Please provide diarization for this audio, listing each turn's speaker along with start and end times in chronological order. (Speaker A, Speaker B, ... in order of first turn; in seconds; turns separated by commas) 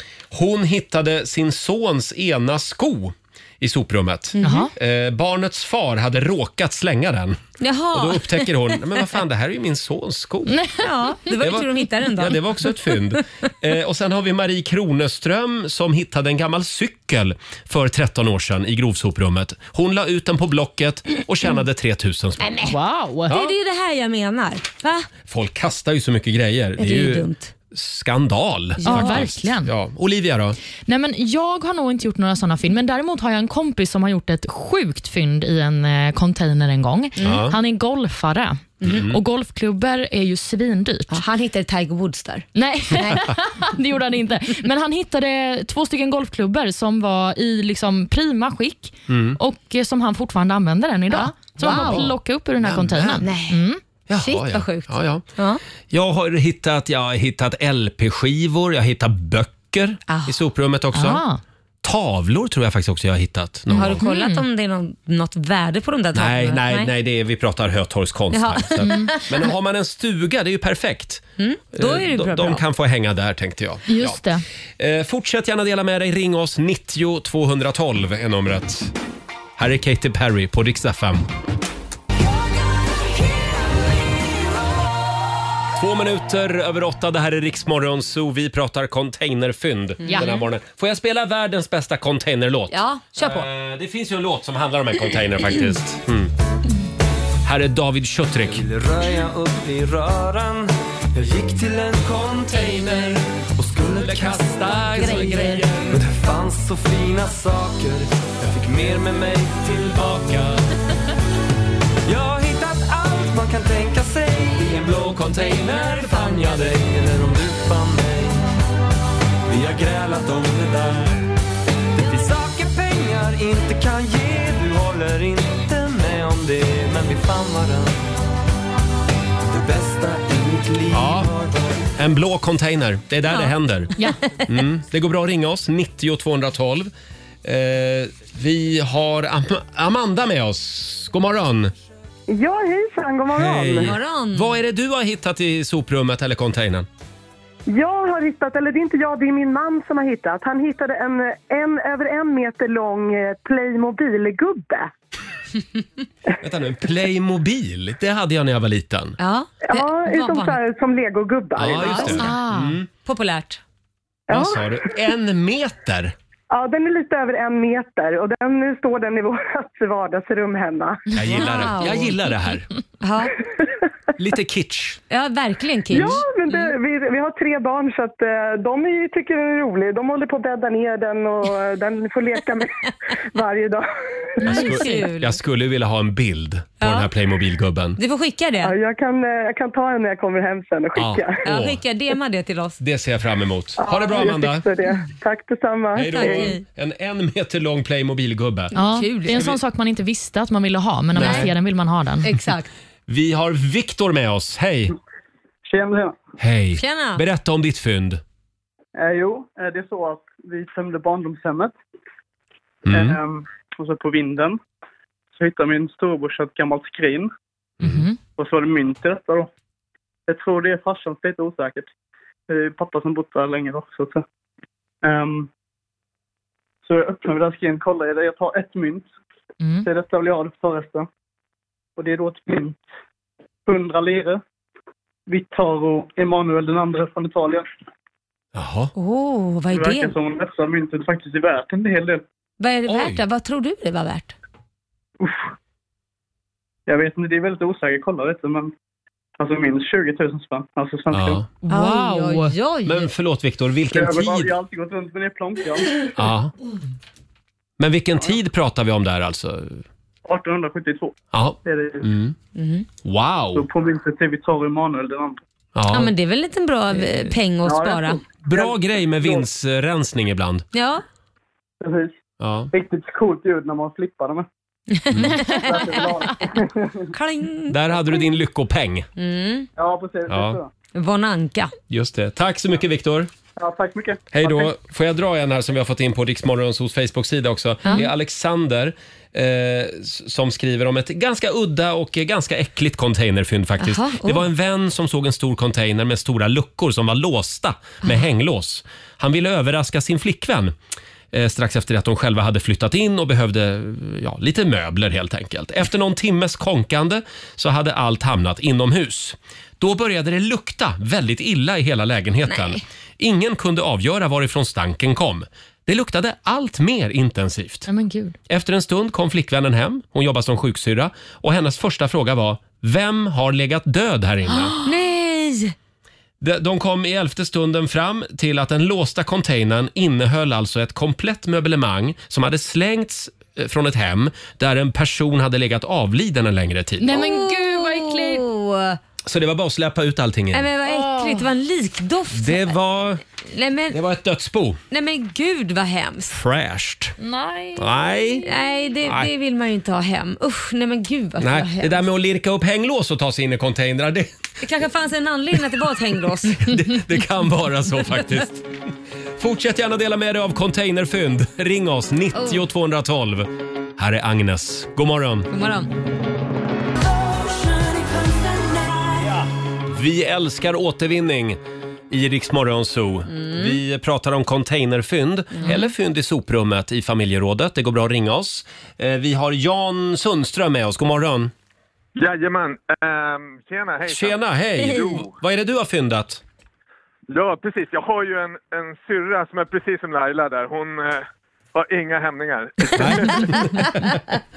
Speaker A: 0.3-7.4, Speaker B: 4.4-4.7, Speaker C: 4.4-4.7, Speaker B: 7.6-8.8, Speaker A: 7.9-10.6, Speaker C: 10.5-10.9, Speaker B: 10.8-12.9, Speaker A: 11.4-22.6, Speaker B: 22.4-22.7, Speaker C: 22.6-23.3, Speaker A: 23.3-23.5, Speaker B: 23.3-25.1, Speaker A: 25.2-30.6, Speaker B: 26.8-27.5, Speaker B: 28.8-29.2, Speaker C: 28.8-29.7, Speaker C: 30.9-41.2, Speaker B: 37.2-37.5, Speaker A: 37.2-37.6, Speaker A: 38.8-39.2, Speaker B: 41.1-42.5, Speaker C: 42.5-53.8, Speaker A: 49.1-49.4, Speaker B: 51.1-52.1, Speaker A: 51.7-53.2, Speaker B: 53.2-53.6, Speaker A: 54.1-55.2, Speaker B: 54.2-55.6, Speaker A: 55.9-61.2, Speaker B: 60.1-60.4, Speaker C: 60.9-61.4, Speaker A: 61.8-64.0, Speaker B: 63.7-66.9, Speaker C: 63.8-64.4, Speaker A: 66.1-74.2, Speaker B: 68.3-69.5, Speaker C: 68.8-69.1, Speaker B: 71.4-72.6, Speaker C: 73.8-74.4, Speaker A: 74.8-78.9, Speaker A: 79.6-81.3, Speaker A: 85.7-96.3, Speaker B: 90.0-90.4, Speaker C: 90.0-90.4, Speaker B: 92.7-93.5, Speaker A: 97.4-98.7, Speaker D: 98.5-110.6, Speaker A: 103.9-106.0, Speaker B: 105.0-105.7, Speaker D: 112.0-118.5, Speaker D: 119.5-121.2, Speaker D: 122.0-128.1, Speaker D: 129.5-131.9, Speaker A: 130.9-131.3, Speaker A: 132.0-133.9, Speaker B: 133.3-134.1, Speaker A: 134.5-136.9, Speaker A: 137.4-141.7, Speaker E: 142.3-143.9, Speaker A: 143.3-146.9, Speaker B: 143.8-144.6, Speaker E: 147.7-154.9, Speaker A: 156.4-159.2, Speaker B: 159.2-160.6, Speaker E: 159.6-162.1, Speaker A: 161.6-162.9, Speaker B: 161.8-162.4, Speaker C: 162.1-162.8, Speaker B: 163.0-163.6, Speaker E: 164.3-164.9, Speaker A: 164.3-166.1, Speaker E: 166.5-171.0, Speaker A: 171.1-172.7, Speaker B: 171.3-172.1, Speaker B: 173.0-173.3, Speaker A: 174.2-175.0, Speaker B: 175.1-176.7, Speaker E: 175.9-182.8, Speaker E: 183.3-183.8, Speaker A: 184.4-188.0, Speaker B: 184.4-185.4, Speaker B: 186.8-187.1, Speaker B: 188.0-188.7, Speaker E: 188.6-191.4, Speaker A: 190.9-191.8, Speaker B: 191.4-192.8, Speaker A: 192.8-194.7, Speaker E: 193.8-196.5, Speaker A: 195.9-198.7, Speaker B: 196.1-196.6, Speaker C: 198.7-202.3, Speaker B: 198.7-199.5, Speaker A: 199.3-199.6, Speaker A: 201.1-201.5, Speaker B: 201.2-201.5, Speaker B: 202.2-202.7, Speaker A: 203.1-204.9, Speaker F: 205.6-206.2, Speaker A: 206.4-208.2, Speaker B: 206.7-207.2, Speaker F: 208.9-211.7, Speaker A: 212.8-213.2, Speaker F: 212.9-214.6, Speaker F: 215.3-217.3, Speaker C: 217.8-218.2, Speaker F: 218.4-219.5, Speaker F: 220.3-221.9, Speaker F: 222.5-224.2, Speaker F: 225.0-225.5, Speaker F: 226.8-229.1, Speaker C: 229.6-229.9, Speaker F: 229.8-231.1, Speaker F: 232.0-232.8, Speaker F: 233.7-234.4, Speaker F: 235.3-237.7, Speaker A: 238.5-238.9, Speaker B: 238.9-240.1, Speaker F: 239.7-242.2, Speaker B: 242.6-244.3, Speaker A: 242.9-243.2, Speaker F: 246.9-248.7, Speaker F: 249.4-251.4, Speaker A: 251.1-251.5, Speaker C: 251.6-252.5, Speaker B: 251.7-253.1, Speaker A: 252.8-254.6, Speaker F: 253.9-256.1, Speaker A: 256.1-256.5, Speaker A: 257.8-259.8, Speaker F: 260.2-262.1, Speaker A: 261.3-262.3, Speaker B: 262.5-262.9, Speaker A: 263.0-263.7, Speaker F: 263.6-265.4, Speaker A: 265.7-266.1, Speaker B: 265.9-268.2, Speaker F: 267.6-269.4, Speaker A: 268.4-270.7, Speaker B: 270.7-271.0, Speaker F: 271.8-272.2, Speaker A: 272.4-272.7, Speaker F: 272.7-274.4, Speaker B: 274.9-276.1, Speaker A: 275.1-275.4, Speaker F: 275.5-276.9, Speaker B: 277.1-278.1, Speaker A: 277.7-279.1, Speaker B: 279.2-279.7, Speaker F: 279.8-280.7, Speaker A: 280.3-280.6, Speaker B: 280.9-281.7, Speaker A: 281.9-283.3, Speaker F: 283.6-284.7, Speaker A: 284.3-300.7, Speaker B: 287.8-288.1, Speaker B: 293.8-294.4, Speaker A: 301.3-317.9, Speaker B: 312.5-312.8, Speaker C: 317.9-318.4, Speaker A: 318.5-324.7, Speaker B: 324.8-325.7, Speaker A: 326.4-337.2, Speaker C: 337.0-338.4, Speaker B: 337.1-339.0, Speaker A: 339.2-340.7, Speaker B: 340.5-342.8, Speaker C: 340.8-341.5, Speaker A: 342.3-343.2, Speaker B: 343.4-344.0, Speaker A: 343.9-344.8, Speaker B: 344.9-346.4, Speaker A: 346.3-347.1, Speaker C: 347.2-348.8, Speaker A: 347.8-348.4, Speaker B: 348.4-352.1, Speaker A: 349.0-349.3, Speaker A: 351.4-354.3, Speaker B: 354.6-356.7, Speaker A: 356.5-358.7, Speaker A: 359.4-365.5, Speaker B: 362.3-362.6, Speaker B: 365.5-365.9, Speaker A: 369.9-371.6, Speaker A: 372.1-381.5, Speaker B: 373.3-373.8, Speaker B: 375.5-375.9, Speaker G: 382.2-385.3, Speaker A: 384.1-386.4, Speaker G: 387.3-393.5, Speaker A: 392.9-394.2